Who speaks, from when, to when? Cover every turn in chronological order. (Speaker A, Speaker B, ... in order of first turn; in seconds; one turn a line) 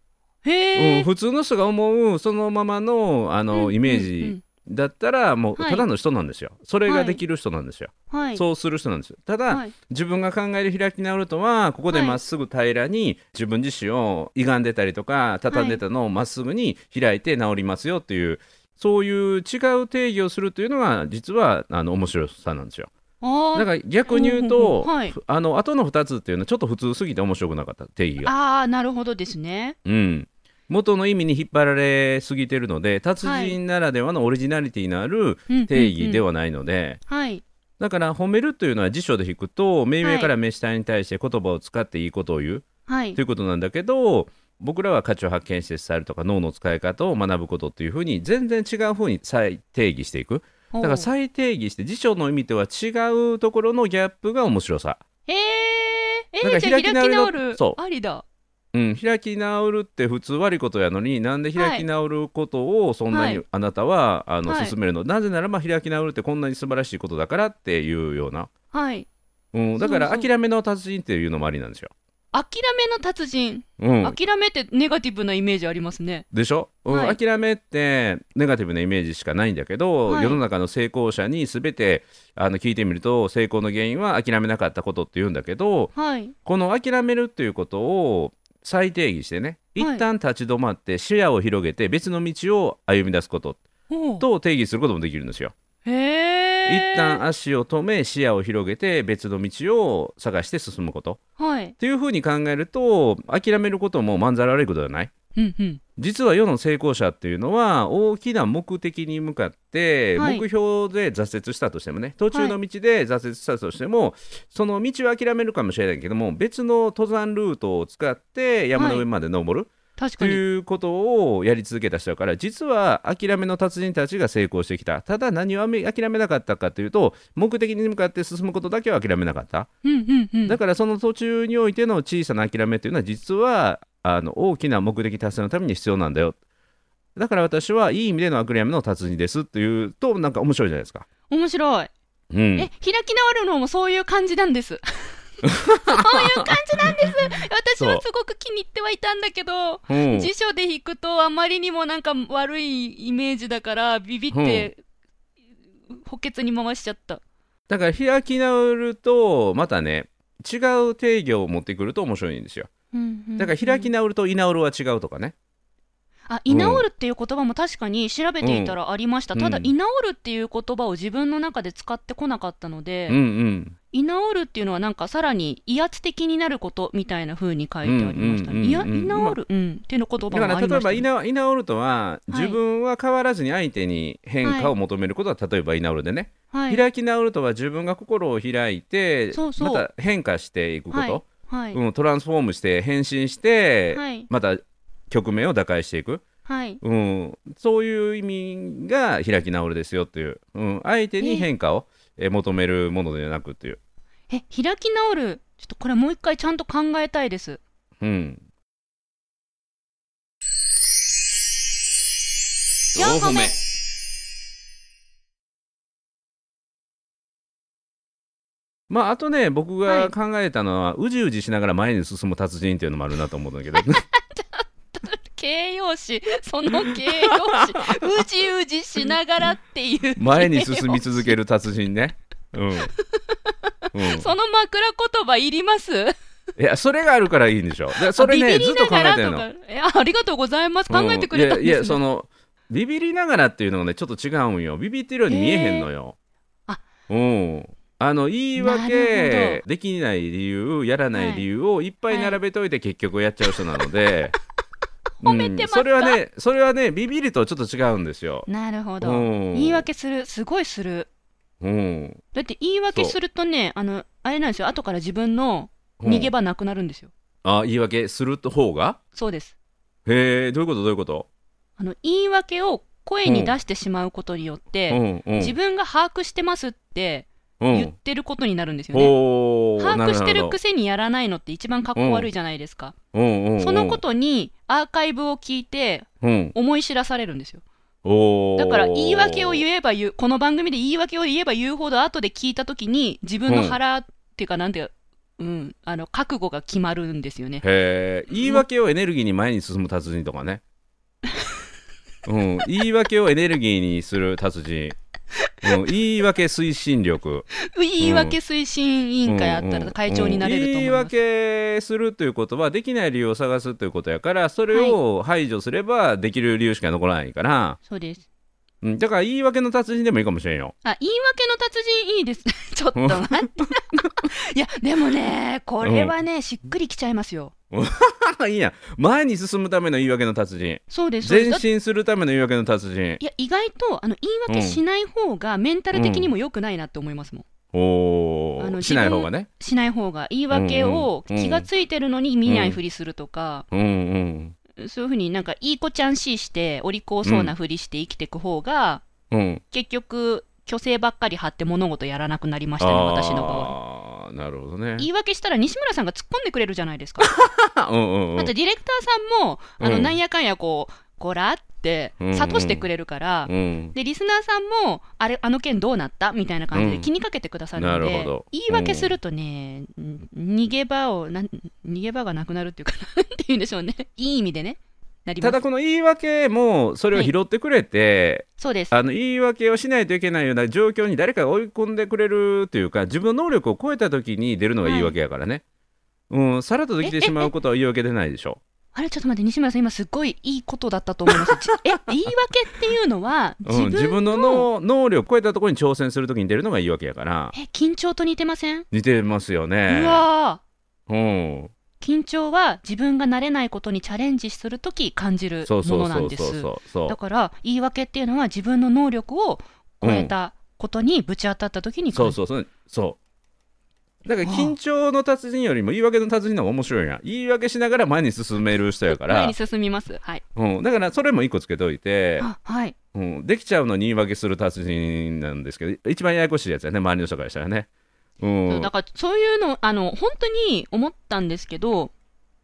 Speaker A: 0.4-1.1
Speaker B: 0.8-22.9
Speaker A: 3.5-4.4
Speaker A: 5.6-5.9
Speaker A: 6.9-7.2
Speaker A: 8.1-8.4
Speaker A: 9.5-9.7
Speaker A: 11.9-12.2
Speaker A: 15.5-15.8
Speaker A: 23.2-25.2
Speaker B: 23.6-28.3
Speaker A: 28.2-29.8
Speaker B: 29.9-37.0
Speaker A: 33.2-33.6
Speaker A: 35.5-36.2
Speaker A: 37.1-37.4
Speaker B: 37.8-55.0
Speaker A: 40.0-40.3
Speaker A: 42.9-43.2
Speaker A: 50.7-51.1
Speaker A: 55.3-58.2
Speaker B: 56.4-57.8
Speaker B: 58.7-68.5
Speaker A: 61.6-61.9
Speaker A: 63.1-63.4
Speaker A: 64.5-64.8
Speaker A: 68.7-69.1
Speaker B: 69.5-71.9
Speaker A: 69.8-70.3
Speaker A: 72.3-76.3
Speaker B: 73.8-74.2
Speaker B: 76.3-85.9
Speaker A: 76.9-77.2
Speaker A: 80.1-80.4
Speaker A: 86.0-86.3
Speaker B: 86.5-93.6
Speaker A: 89.8-90.0
Speaker A: 93.9-94.2
Speaker B: 94.2-95.5
Speaker A: 95.8-97.2
Speaker B: 96.7-101.2
Speaker A: 101.4-101.8
Speaker B: 101.8-105.1
Speaker A: 105.3-105.8
Speaker B: 106.0-129.7
Speaker A: 110.2-110.5
Speaker A: 118.8-119.0
Speaker A: 120.0-120.4
Speaker A: 129.8-130.6
Speaker B: 130.4-136.4
Speaker B: 137.2-141.1
Speaker A: 141.3-141.9
Speaker B: 142.3-142.7
Speaker A: 142.6-145.2
Speaker B: 145.4-147.1
Speaker A: 145.8-154.8
Speaker B: 147.8-148.0
Speaker B: 149.9-150.3
Speaker B: 154.3-154.7
Speaker A: 155.9-157.2
Speaker B: 157.7-162.7
Speaker A: 162.9-163.9
Speaker B: 163.4-165.3
Speaker A: 166.3-173.2
Speaker B: 166.5-166.8
Speaker B: 168.4-168.8
Speaker B: 169.3-169.7
Speaker B: 173.1-173.8
Speaker A: 173.9-181.1
Speaker B: 177.8-179.4
Speaker B: 180.3-196.2
Speaker A: 182.3-182.6
Speaker A: 184.4-184.7
Speaker A: 186.5-186.8
Speaker A: 189.3-189.9
Speaker A: 190.9-191.8
Speaker A: 193.9-194.3
Speaker A: 196.5-196.8
Speaker B: 196.8-203.8
Speaker A: 201.2-201.5
Speaker A: 204.3-207.6
Speaker B: 208.0-208.4
Speaker A: 212.9-213.5
Speaker B: 213.0-213.5
Speaker B: 218.9-224.0
Speaker A: 219.9-220.1
Speaker A: 223.8-231.3
Speaker B: 226.7-228.2
Speaker B: 230.2-232.9
Speaker A: 233.1-236.1
Speaker B: 233.9-234.3
Speaker B: 236.6-239.5
Speaker A: 238.1-242.0
Speaker B: 240.9-246.1
Speaker A: 245.3-245.9
Speaker B: 247.1-254.3
Speaker A: 248.6-249.6
Speaker A: 251.1-251.4
Speaker A: 252.1-252.4
Speaker A: 255.2-256.2
Speaker B: 255.2-258.5
Speaker A: 258.5-261.1
Speaker B: 259.0-259.9
Speaker B: 261.6-262.2
Speaker A: 262.3-267.1
Speaker B: 266.0-266.3
Speaker B: 267.4-269.0
Speaker A: 269.1-269.5
Speaker B: 270.1-271.3
Speaker A: 271.8-279.1
Speaker B: 273.2-273.5
Speaker B: 274.9-275.5
Speaker B: 277.6-277.9
Speaker B: 278.9-280.6
Speaker A: 279.8-282.9
Speaker B: 282.0-282.3
Speaker B: 283.1-284.0
Speaker A: 283.6-287.6
Speaker B: 286.2-286.5
Speaker B: 288.0-289.6
Speaker A: 288.6-297.6
Speaker B: 293.5-293.8
Speaker B: 297.6-300.6
Speaker A: 298.3-298.6
Speaker B: 302.2-305.0
Speaker A: 305.5-305.8
Speaker B: 305.6-308.4
Speaker A: 307.5-311.1
Speaker B: 309.2-317.8
Speaker A: 314.7-315.0
Speaker A: 317.9-318.2
Speaker B: 318.8-320.7
Speaker A: 320.8-327.5
Speaker B: 323.0-324.1
Speaker B: 325.8-326.1
Speaker B: 327.7-333.2
Speaker A: 330.9-331.6
Speaker A: 333.2-337.5
Speaker B: 334.5-334.8
Speaker B: 335.9-336.3
Speaker B: 337.7-339.5
Speaker A: 338.6-343.6
Speaker B: 340.5-341.6
Speaker B: 342.5-342.8
Speaker B: 343.7-344.6
Speaker A: 344.8-349.0
Speaker B: 347.2-347.5
Speaker B: 349.3-349.6
Speaker A: 349.7-353.7
Speaker B: 352.8-355.1
Speaker A: 355.0-357.3
Speaker B: 357.2-358.5
Speaker A: 358.4-375.6
Speaker B: 359.8-360.1
Speaker B: 362.2-362.9
Speaker B: 363.5-363.9
Speaker B: 366.7-367.1
Speaker B: 367.8-369.1
Speaker B: 375.4-385.6
Speaker A: 378.6-378.9
Speaker A: 384.8-385.1
Speaker B: 386.3-388.6
Speaker A: 387.0-387.5
Speaker A: 388.9-394.7
Speaker B: 393.6-397.5
Speaker A: 397.5-398.9
Speaker B: 398.9-400.2
Speaker A: 399.9-400.6
Speaker B: 401.1-401.7
Speaker A: 402.0-412.4
Speaker B: 405.6-407.1
Speaker B: 410.0-410.3
Speaker B: 412.1-413.2
Speaker B: 414.2-419.5
Speaker A: 414.4-414.8
Speaker A: 419.1-420.4
Speaker B: 420.5-422.5
Speaker A: 422.4-423.0
Speaker B: 423.1-427.9
Speaker B: 428.4-428.9
Speaker A: 428.7-432.1